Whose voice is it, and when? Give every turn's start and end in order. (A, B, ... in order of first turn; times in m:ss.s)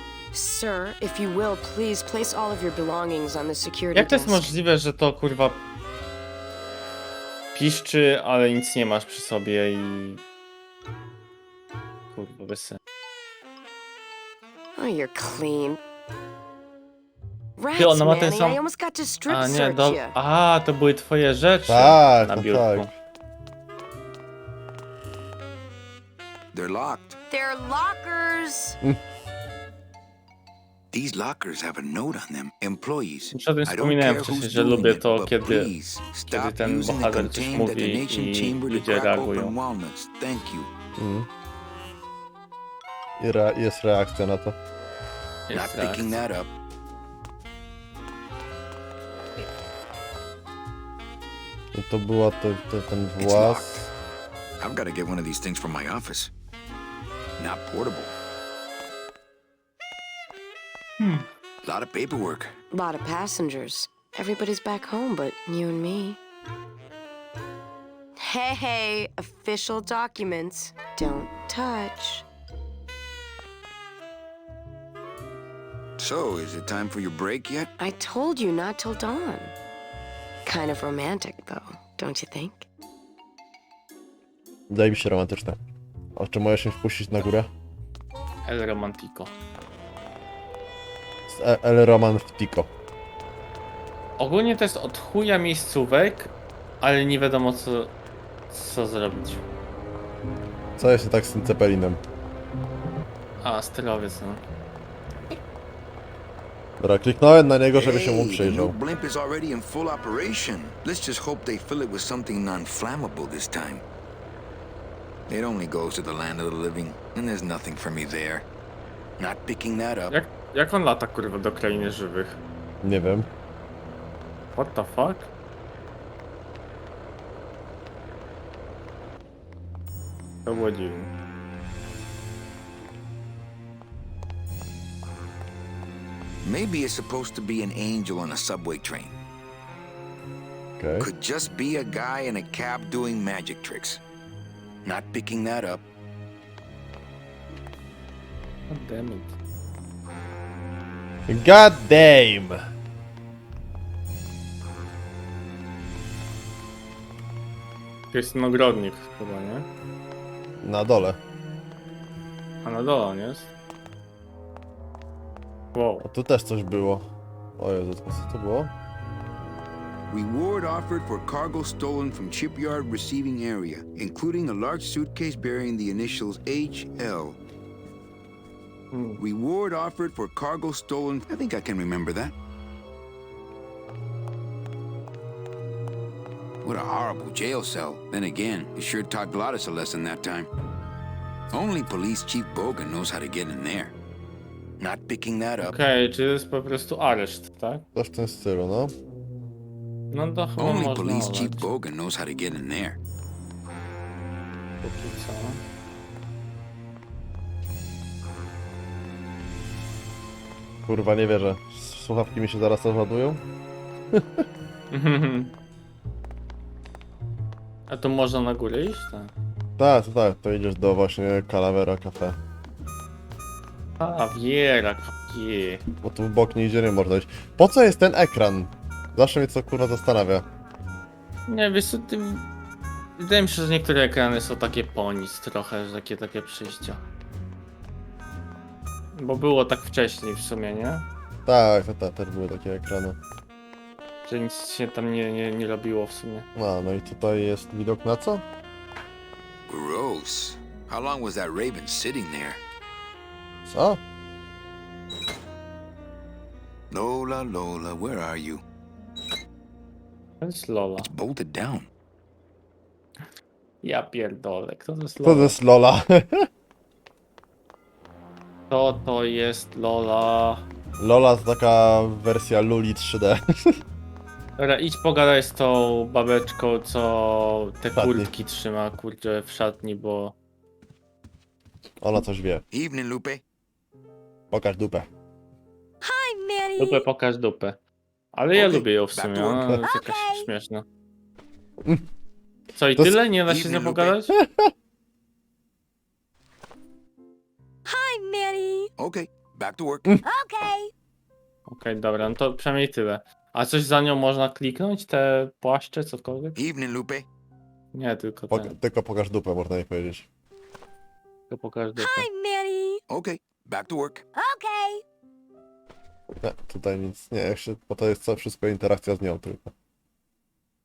0:00.3-0:04.5 A
0:03.9-0:05.6 B
0:07.6-0:10.2 B
0:12.1-0:12.8 B
0:14.8-0:15.8 A
0:17.6-0:20.1 A
0:17.8-0:18.6 B
0:19.3-0:22.9 B
0:21.7-0:22.9 C
0:26.5-0:27.2 D
0:27.3-0:28.8 A
0:30.9-0:40.7 D
0:33.3-0:35.7 B
0:36.3-0:39.6 B
0:41.0-0:41.3 C
0:43.2-0:44.6 C
0:45.5-0:46.2 B
0:45.5-0:46.5 D
0:51.7-0:53.9 C
0:53.2-0:53.9 D
0:54.6-0:56.3 D
0:57.4-0:58.1 D
1:01.6-1:02.5 D
1:02.7-1:06.2 A
1:08.2-1:12.2 A
1:16.0-1:17.7 D
1:17.8-1:19.5 A
1:20.4-1:22.7 A
1:24.7-1:25.6 C
1:26.2-1:27.5 C
1:28.4-1:29.3 B
1:31.3-1:32.7 C
1:34.2-1:37.9 B
1:38.5-1:39.4 B
1:40.8-1:42.0 C
1:43.4-1:44.4 B
1:46.8-1:48.8 C
1:47.7-1:53.8 D
1:55.3-1:58.5 D
1:59.2-2:00.2 D
2:00.1-2:02.4 B
2:02.8-2:03.3 C
2:04.6-2:05.3 B
2:10.4-2:11.1 B
2:16.4-2:19.1 D
2:20.8-2:21.1 C
2:21.0-2:24.0 D
2:24.8-2:25.8 D
2:28.7-2:29.4 B
2:31.3-2:32.6 C
2:38.1-2:39.7 B
2:40.6-2:41.2 C
2:42.6-2:43.5 B
2:45.7-2:46.1 B
2:46.0-2:48.7 C
2:50.1-2:57.4 D
2:58.9-2:59.2 B
2:59.2-3:02.4 D
3:06.6-3:10.5 D
3:11.5-3:13.9 D
3:14.8-3:15.8 D
3:15.6-3:17.8 B
3:17.9-3:18.9 C
3:20.1-3:21.7 B
3:20.6-3:23.0 D
3:24.8-3:25.6 B
3:30.9-3:33.4 C
3:34.1-3:34.4 C
3:34.9-3:35.5 B
3:37.9-3:39.3 B
3:39.8-3:42.4 C
3:44.0-3:45.8 B
3:46.0-3:50.4 C
3:51.5-3:52.5 B
3:53.2-3:57.0 B
3:59.1-4:01.1 B
4:01.4-4:03.2 C
4:04.2-4:06.4 B
4:06.6-4:08.4 C
4:09.7-4:12.6 D
4:13.6-4:14.0 C
4:16.9-4:18.6 D
4:20.4-4:21.1 B
4:21.0-4:21.9 D
4:23.8-4:25.6 B
4:25.2-4:26.5 C
4:28.7-4:30.6 B
4:31.0-4:33.8 C
4:34.6-4:40.4 B
4:38.0-4:38.3 C
4:42.0-4:42.6 C
4:42.7-4:43.4 D
4:44.5-4:45.1 C
4:46.0-4:47.0 E
4:46.8-4:47.8 B
4:48.3-4:50.8 B
4:48.5-4:49.8 D
4:49.8-4:50.5 E
4:52.7-4:54.3 B
4:53.4-4:54.2 D
4:54.3-4:54.7 C
4:57.8-4:58.9 E
4:59.0-5:00.1 D
5:00.2-5:00.9 E
5:01.7-5:06.6 B
5:06.6-5:07.2 D
5:07.9-5:08.7 B
5:08.5-5:10.3 C
5:11.5-5:12.3 B
5:12.0-5:13.0 E
5:13.1-5:14.2 D
5:14.3-5:15.0 E
5:16.4-5:19.7 C